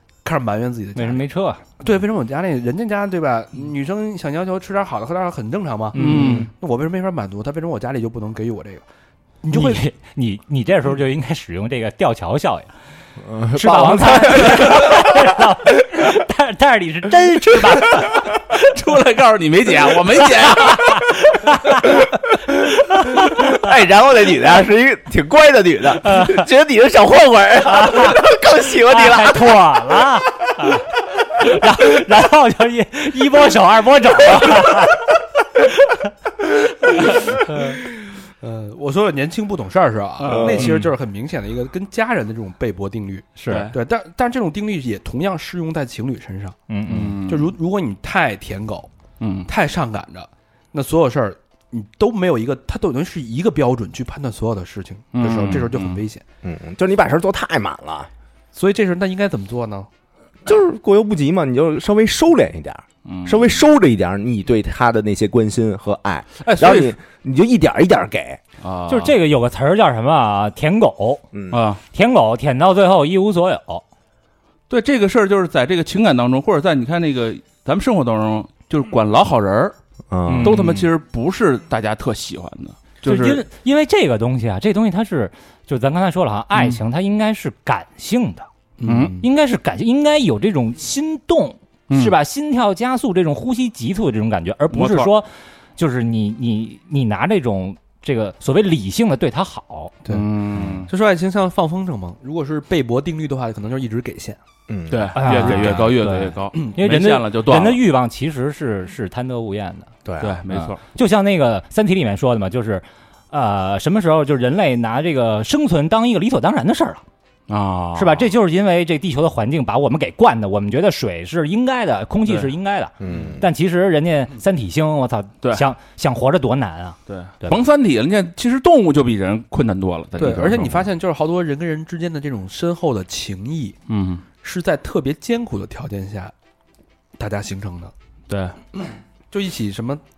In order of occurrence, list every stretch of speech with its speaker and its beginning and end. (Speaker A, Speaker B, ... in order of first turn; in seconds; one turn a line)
Speaker A: 0.2-1.2
Speaker B: 1.0-1.6
Speaker A: 1.8-8.8
Speaker B: 5.9-6.5
Speaker C: 6.0-6.5
Speaker D: 6.1-6.5
Speaker A: 9.4-9.8
Speaker B: 9.5-12.7
Speaker D: 13.2-15.4
Speaker B: 13.5-18.2
Speaker C: 18.4-21.1
Speaker B: 21.4-21.8
Speaker D: 23.1-29.6
Speaker B: 27.7-28.2
Speaker B: 28.8-35.0
Speaker B: 37.5-37.8
Speaker A: 38.4-46.6
Speaker C: 40.2-40.9
Speaker D: 40.3-40.7
Speaker B: 40.5-40.9
Speaker B: 43.4-43.7
Speaker C: 43.5-43.8
Speaker B: 46.7-47.2
Speaker C: 46.9-47.5
Speaker A: 47.2-48.9
Speaker C: 49.2-49.5
Speaker A: 49.5-56.2
Speaker C: 55.1-56.0
Speaker D: 56.4-58.1
Speaker A: 58.5-59.9
Speaker D: 60.5-68.4
Speaker C: 63.1-63.6
Speaker C: 66.4-66.9
Speaker C: 68.6-69.2
Speaker B: 68.9-71.2
Speaker D: 71.3-71.6
Speaker C: 71.5-71.8
Speaker B: 71.9-73.8
Speaker C: 74.7-79.8
Speaker D: 80.1-80.8
Speaker B: 80.3-80.8
Speaker C: 80.4-83.4
Speaker B: 83.0-88.5
Speaker A: 88.8-89.3
Speaker C: 88.8-89.2
Speaker B: 89.2-100.0
Speaker C: 91.9-92.2
Speaker C: 94.7-95.1
Speaker A: 100.0-104.4
Speaker C: 100.1-100.9
Speaker B: 100.5-100.8
Speaker D: 104.7-105.9
Speaker C: 104.9-107.8
Speaker B: 105.2-109.9
Speaker D: 110.0-110.4
Speaker C: 110.2-110.8
Speaker B: 110.5-117.0
Speaker C: 117.5-118.3
Speaker B: 118.0-127.6
Speaker D: 123.0-123.5
Speaker C: 123.1-123.3
Speaker C: 127.1-130.8
Speaker A: 130.2-133.8
Speaker D: 130.2-130.6
Speaker C: 133.9-134.2
Speaker A: 134.4-136.3
Speaker A: 137.2-137.9
Speaker C: 138.3-138.6
Speaker A: 139.3-140.0